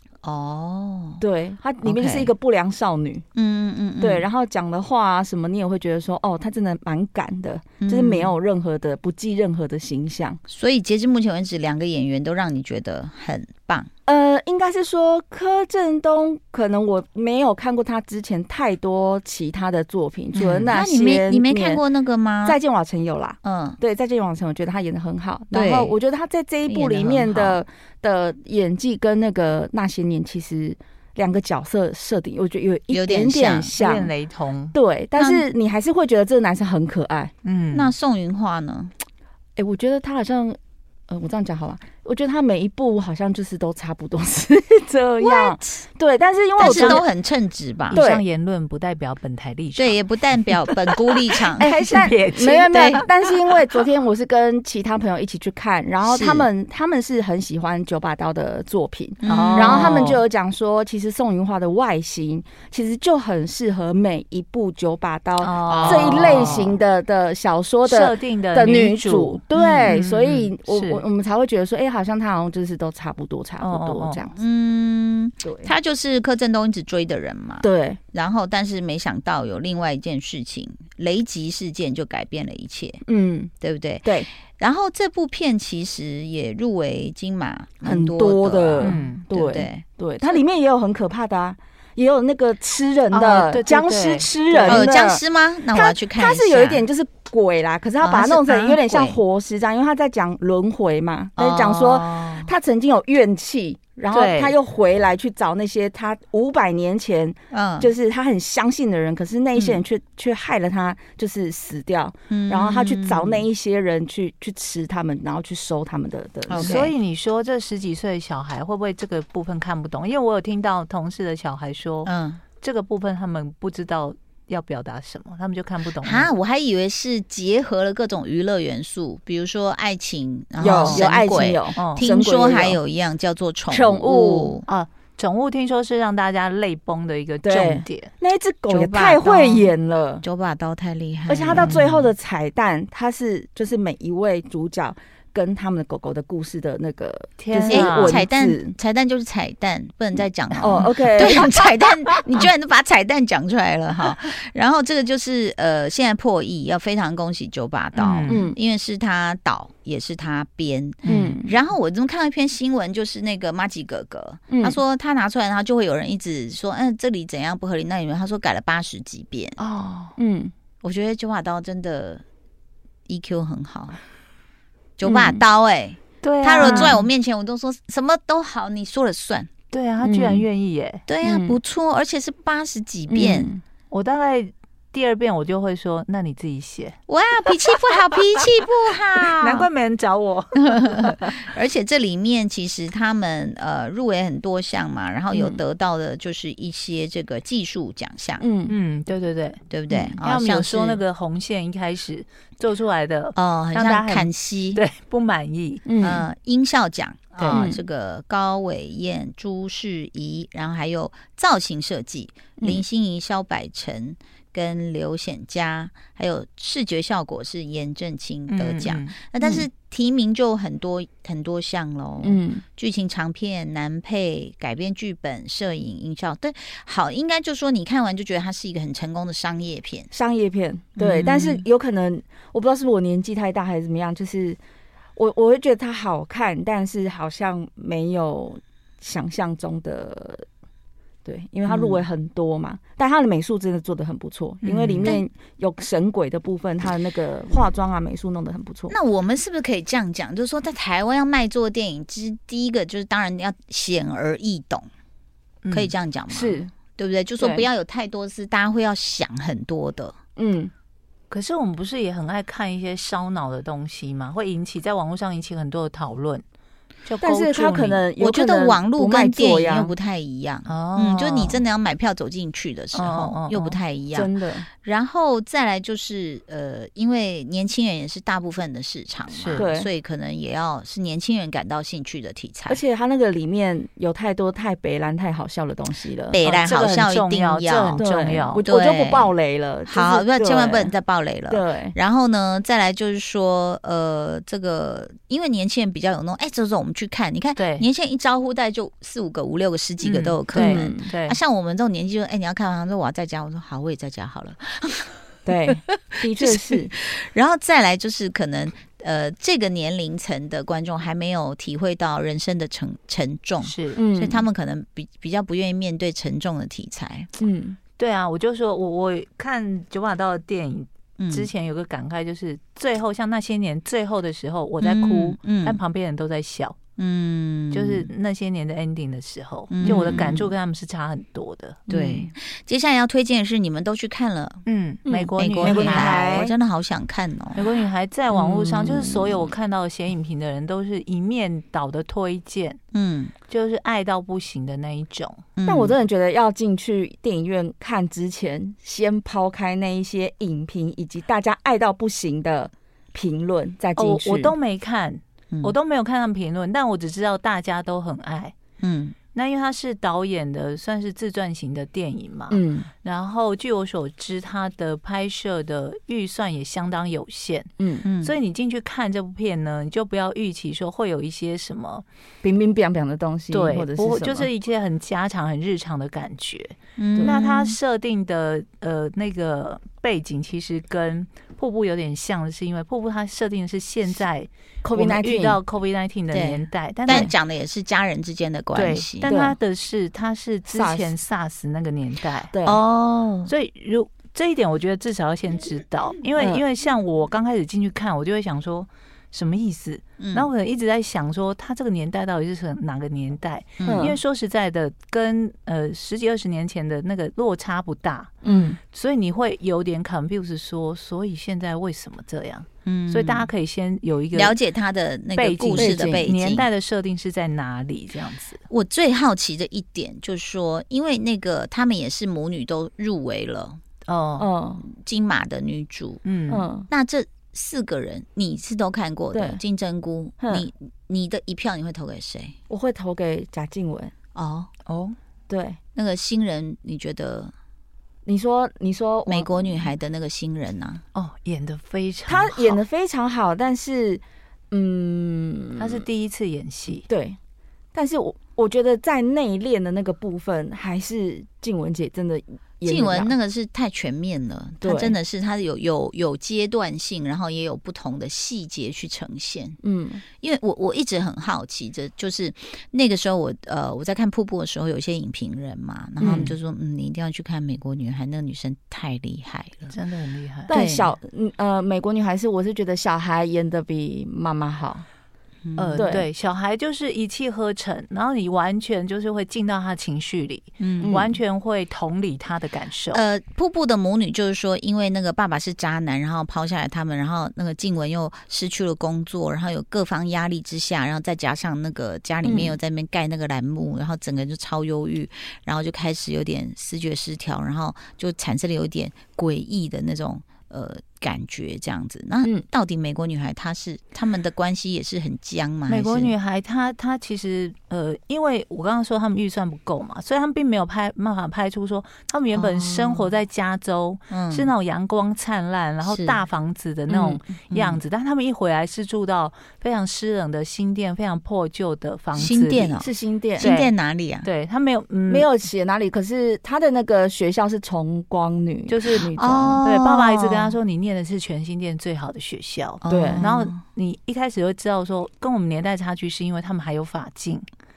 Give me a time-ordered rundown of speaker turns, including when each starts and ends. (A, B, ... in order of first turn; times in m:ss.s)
0:00.2-0:01.2 A
0:01.2-0:03.2 B
0:01.8-0:02.3 A
0:03.4-0:04.3 A
0:04.0-0:10.4 B
0:07.8-0:08.3 A
0:10.5-0:13.9 A
0:14.1-0:21.8 B
0:20.4-0:22.6 A
0:22.5-0:34.1 B
0:23.4-0:23.8 A
0:25.5-0:26.0 A
0:26.7-0:27.6 A
0:32.9-0:33.8 A
0:33.6-0:34.8 C
0:34.7-0:37.3 B
0:35.2-0:35.4 A
0:37.4-0:37.9 C
0:37.7-0:38.9 A
0:39.6-0:40.6 B
0:41.1-0:47.0 B
0:45.2-0:45.8 A
0:46.6-0:48.0 A
0:46.6-0:47.1 C
0:47.9-0:50.0 C
0:48.0-0:48.2 B
0:49.8-0:51.7 A
0:50.6-0:53.4 C
0:51.6-1:14.3 B
0:52.7-0:53.0 A
0:56.0-0:56.5 A
0:59.2-1:00.2 A
0:59.3-1:00.2 C
1:05.4-1:06.8 C
1:05.6-1:06.7 A
1:07.9-1:11.0 C
1:13.6-1:14.3 C
1:14.4-1:23.0 A
1:17.6-1:18.0 B
1:23.1-1:23.5 B
1:23.6-1:29.8 A
1:27.8-1:35.2 B
1:28.8-1:29.3 C
1:33.1-1:35.0 C
1:34.7-1:36.9 A
1:35.8-1:56.9 B
1:38.0-1:39.2 A
1:41.4-1:42.5 A
1:44.1-1:44.6 A
1:47.5-1:47.9 A
1:49.6-1:49.8 A
1:52.3-1:53.5 A
1:56.5-1:56.9 A
1:56.5-2:06.3 C
2:02.0-2:02.4 A
2:06.0-2:14.7 A
2:10.6-2:12.8 B
2:10.7-2:11.0 C
2:11.8-2:12.1 C
2:13.7-2:14.5 B
2:14.7-2:18.1 C
2:17.4-2:20.2 B
2:18.7-2:21.8 A
2:21.3-2:28.6 B
2:21.5-2:22.1 C
2:27.4-2:28.2 C
2:27.7-2:49.6 A
2:30.6-2:31.4 B
2:38.0-2:38.5 C
2:38.3-2:38.6 B
2:41.0-2:41.4 C
2:41.1-2:41.5 B
2:49.6-2:50.2 C
2:50.2-2:50.5 B
2:50.8-2:52.2 A
2:53.1-2:54.0 A
2:55.0-2:59.5 A
2:55.1-2:55.4 B
2:56.2-2:57.1 C
2:59.7-3:01.0 C
3:00.0-3:00.4 B
3:01.1-3:03.5 A
3:03.1-3:03.6 B
3:03.9-3:11.5 C
3:07.1-3:09.7 A
3:11.5-3:18.4 A
3:18.4-3:18.7 B
3:18.7-3:25.9 C
3:19.7-3:21.0 A
3:23.4-3:24.8 A
3:25.9-3:26.2 B
3:26.0-3:50.1 A
3:27.4-3:27.7 C
3:27.5-3:27.8 B
3:38.5-3:39.6 C
3:42.2-3:42.5 B
3:50.2-3:54.6 B
3:51.0-3:51.6 A
3:51.2-3:51.5 C
3:55.2-4:00.4 B
4:01.2-4:08.9 B
4:01.7-4:02.1 A
4:04.6-4:05.2 C
4:08.9-4:14.9 A
4:15.6-4:15.9 C
4:15.7-4:20.2 A
4:16.4-4:16.6 B
4:20.4-4:20.7 B
4:21.3-4:26.4 C
4:27.0-4:28.1 C
4:27.2-4:29.9 B
4:28.2-4:42.8 A
4:30.7-4:31.6 C
4:32.9-4:33.8 C
4:34.2-4:34.6 B
4:39.3-4:39.7 C
4:39.6-4:39.8 B
4:42.7-4:46.4 B
4:46.3-4:48.0 A
4:46.4-4:48.7 C
4:48.0-4:50.8 B
4:48.6-4:49.4 A
4:49.9-5:05.1 A
4:51.5-4:51.9 B
4:57.6-4:57.9 C
5:00.0-5:01.4 C
5:00.6-5:00.9 B
5:05.5-5:06.9 B
5:05.7-5:17.3 A
5:13.6-5:14.0 C
5:14.0-5:14.4 B
5:17.4-5:17.8 B
5:18.0-5:26.8 C
5:21.2-5:21.5 A
5:24.8-5:25.8 A
5:27.0-5:28.1 A
5:27.7-5:32.3 C
5:29.7-5:30.5 A
5:31.9-5:34.6 A
5:34.7-5:36.5 C
5:35.1-5:36.3 B
5:35.4-5:37.7 A
5:37.5-5:42.8 C
5:38.3-5:39.4 A
5:42.9-5:43.4 A
5:43.5-5:45.5 C
5:45.6-5:45.9 A
5:45.7-5:54.5 B
5:54.0-5:58.5 C
5:58.8-5:59.2 A
5:59.3-6:12.0 C
6:02.5-6:02.9 B
6:07.8-6:08.0 B
6:08.0-6:08.4 A
6:12.4-6:14.5 B
6:13.5-6:27.3 C
6:17.0-6:17.8 A
6:24.8-6:25.6 B
6:26.3-6:29.4 A
6:28.8-6:32.5 C
6:29.3-6:29.5 B
6:30.7-6:31.1 B
6:32.6-6:33.5 A
6:33.5-6:48.4 C
6:40.2-6:40.5 A
6:43.8-6:44.1 A
6:43.9-6:44.2 B
6:48.4-6:48.8 B
6:48.9-6:54.6 C
6:52.8-6:53.5 A
6:54.3-6:56.7 A
6:55.4-6:58.6 C
6:55.8-6:56.2 B
6:58.7-7:03.8 A
7:04.1-7:04.5 C
7:04.4-7:04.8 B
7:04.8-7:06.2 A
7:06.2-7:06.7 C
7:06.5-7:06.8 B
7:06.9-7:12.6 A
7:09.3-7:09.6 B
7:12.7-7:14.1 B
7:14.4-7:14.7 A
7:14.9-7:15.2 C
7:15.5-7:15.8 B
7:16.0-7:17.5 A
7:18.3-7:19.5 B
7:19.3-7:21.0 A
7:21.1-7:22.8 C
7:22.3-7:25.9 B
7:25.8-7:27.1 C
7:27.1-7:27.4 B
7:27.9-7:33.3 B
7:32.8-7:39.8 A
7:34.8-7:35.1 B
7:39.8-7:40.2 B
7:40.4-7:50.0 A
7:46.2-7:46.6 C
7:49.9-7:50.7 C
7:50.7-7:51.2 A
7:50.7-7:55.0 B
7:55.6-7:56.1 A
7:55.8-8:03.2 C
8:00.8-8:01.2 A
8:03.1-8:26.3 A
8:25.9-8:43.0 C
8:32.6-8:33.3 A
8:34.3-8:34.7 A
8:36.1-8:36.4 A
8:37.7-8:38.0 A
8:42.4-8:44.5 A
8:43.0-8:43.6 B
8:43.6-8:43.9 C
8:44.4-8:45.5 C
8:45.3-8:49.8 B
8:48.9-8:57.6 C
8:49.2-8:50.7 A
8:53.0-8:53.8 A
8:53.0-8:53.4 B